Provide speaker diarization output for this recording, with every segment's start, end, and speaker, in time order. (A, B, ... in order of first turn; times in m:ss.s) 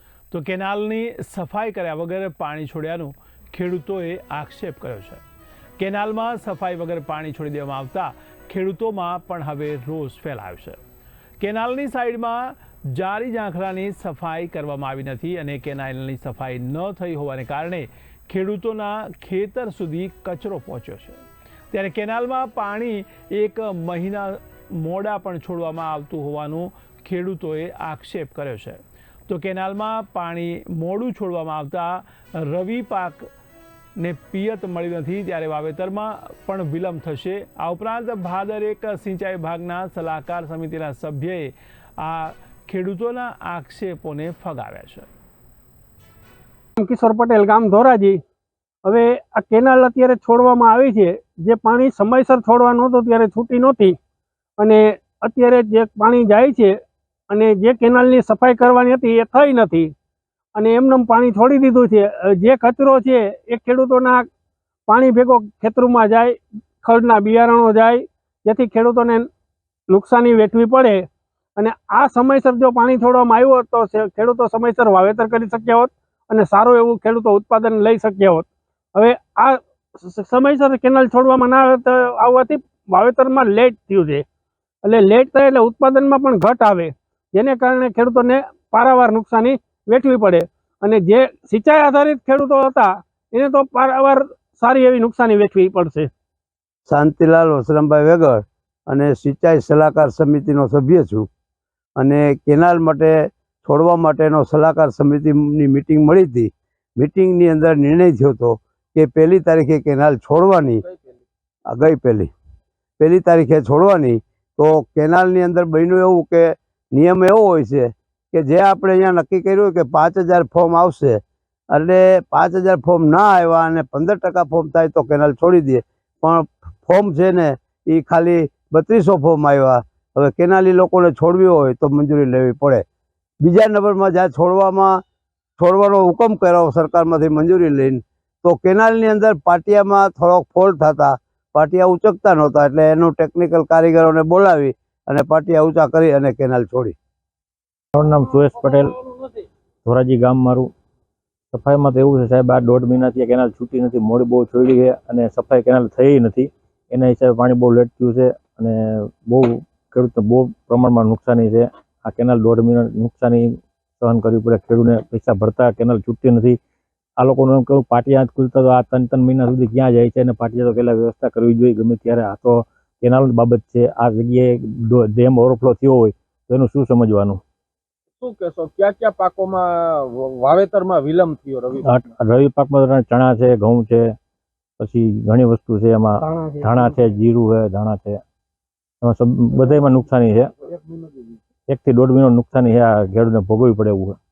0:00.3-0:05.2 A
0:05.8-0:10.8 A
0:11.4-0:21.2 A
0:21.7-0:33.3 A
0:34.0-0:45.1 A
0:46.8-0:48.2 B
0:48.8-0:54.0 B
0:54.6-0:56.7 B
0:57.3-0:59.9 B
1:00.6-1:04.2 B
1:04.9-1:09.3 B
1:09.9-1:11.0 B
1:11.6-1:24.2 B
1:24.8-1:36.1 B
1:36.9-1:41.3 C
1:42.0-1:50.8 C
1:50.9-1:51.2 D
1:51.7-1:52.3 C
1:53.0-2:01.2 C
2:01.7-2:12.8 C
2:13.4-2:15.0 C
2:15.6-2:27.0 C
2:27.9-2:29.0 E
2:29.8-2:30.7 E
2:31.5-2:46.6 E
2:47.2-2:57.4 E
2:58.2-3:01.8 D
3:01.8-3:04.1 E
3:04.8-3:08.2 E
3:06.2-3:07.2 B
3:09.0-3:10.5 E
3:10.6-3:11.3 D
3:11.7-3:14.2 E